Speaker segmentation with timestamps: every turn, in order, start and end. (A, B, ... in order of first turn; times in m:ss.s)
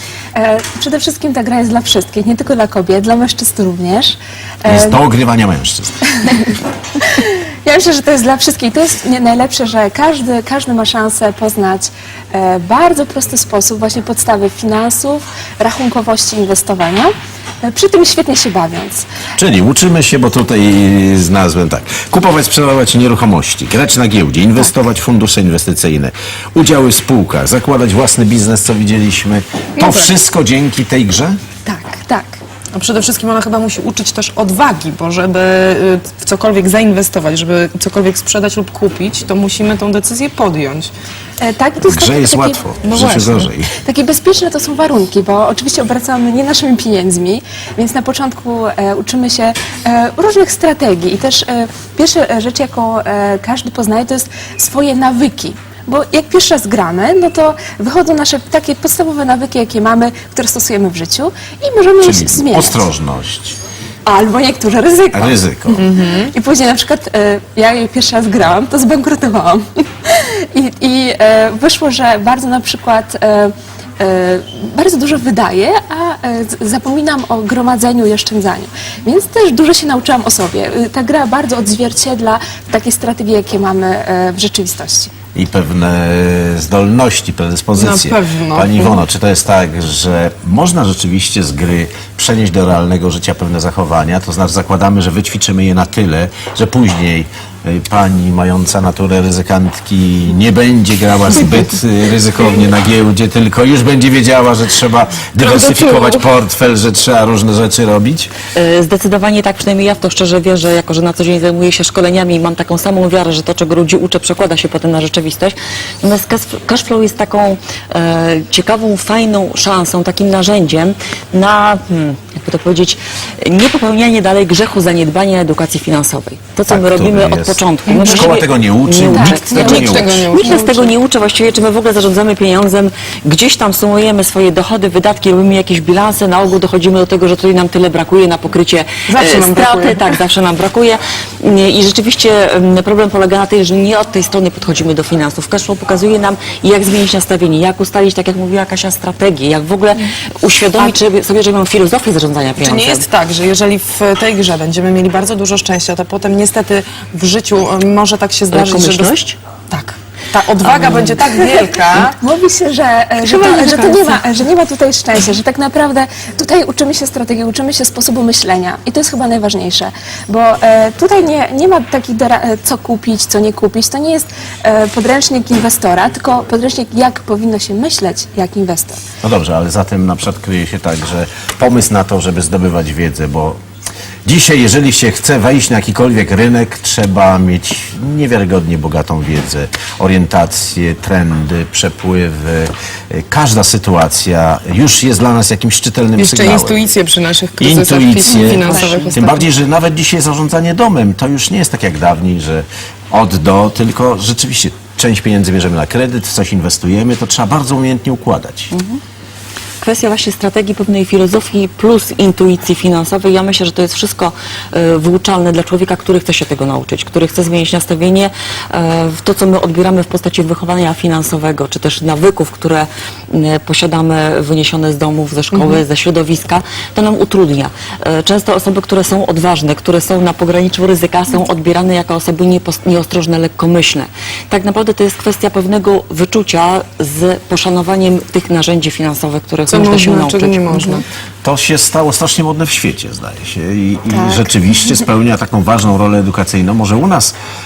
0:00.3-0:05.0 A
0:04.6-0:06.0 B
0:06.2-0:06.5 A
0:07.0-0:19.0 A
0:19.4-0:31.4 B
0:29.8-0:30.1 C
0:31.6-0:32.4 A
0:32.7-0:40.9 C
0:41.4-0:42.6 A
0:41.8-0:43.7 B
0:42.8-0:43.5 C
0:43.8-1:02.8 A
1:02.0-1:03.6 B
1:04.0-1:25.1 A
1:05.1-1:05.8 B
1:05.8-1:06.3 C
1:25.3-1:48.3 B
1:27.7-1:29.0 C
1:45.4-1:46.2 C
1:48.5-2:33.0 D
2:06.7-2:10.2 B
2:07.8-2:08.3 C
2:09.1-2:09.4 A
2:09.5-2:10.9 C
2:19.1-2:20.2 C
2:32.6-2:39.1 C
2:38.5-2:39.4 D
2:39.7-2:42.2 C
2:40.6-2:41.1 D
2:42.0-2:59.0 A
2:43.2-2:44.2 C
2:59.2-3:03.6 B
3:04.2-3:16.8 B
3:16.2-3:19.5 C
3:17.6-3:28.7 B
3:18.3-3:18.9 A
3:28.7-3:29.0 D
3:29.8-4:01.0 D
3:45.5-3:45.8 C
3:59.7-4:01.0 C
4:01.4-4:07.3 B
4:04.1-4:04.5 A